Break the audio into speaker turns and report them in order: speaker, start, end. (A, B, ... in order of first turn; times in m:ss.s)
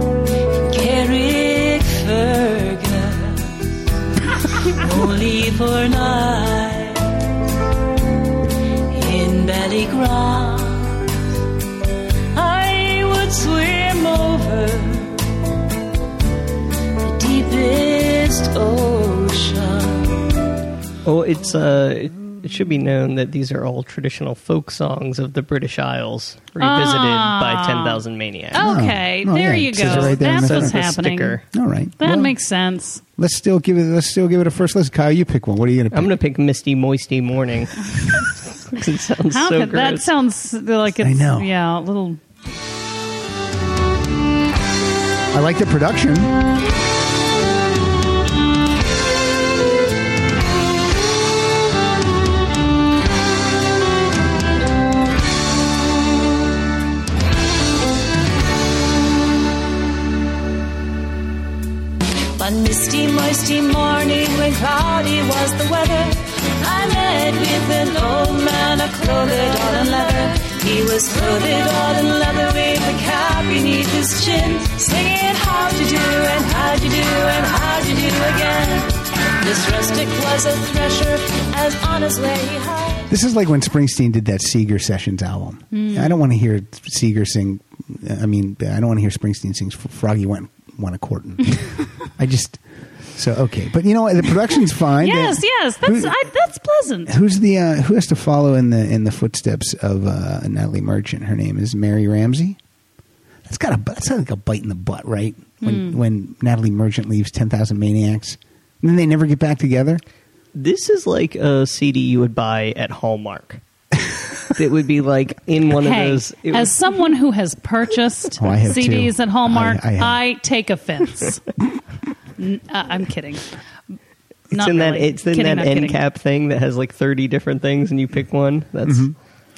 0:00.6-0:03.6 A
0:04.5-0:07.2 A
0:08.9-0:11.1 A
0:12.3-0:15.3 A
0:17.0-0:20.2 A
0:21.0-0:28.7 B
0:26.6-0:31.4 C
0:28.5-0:30.9 D
0:29.8-0:31.4 B
0:31.5-0:32.4 D
0:32.0-0:33.0 C
0:33.2-0:36.1 D
0:35.9-0:40.1 B
0:39.3-0:42.2 C
0:41.0-0:41.5 D
0:45.3-0:46.4 D
1:02.4-1:23.1 A
1:23.1-1:31.6 D
1:25.7-1:26.2 C
1:32.2-1:32.6 D
1:33.1-1:36.1 D
1:35.0-1:37.1 C
1:37.1-1:42.6 D
1:43.4-1:50.0 D
1:45.6-1:46.0 C
1:50.5-1:53.6 B
1:54.5-1:56.7 B
1:55.8-2:01.4 C
1:58.4-2:00.2 D
2:02.4-2:03.5 C
2:04.5-2:06.0 C
2:04.5-2:09.1 B
2:08.8-2:09.1 D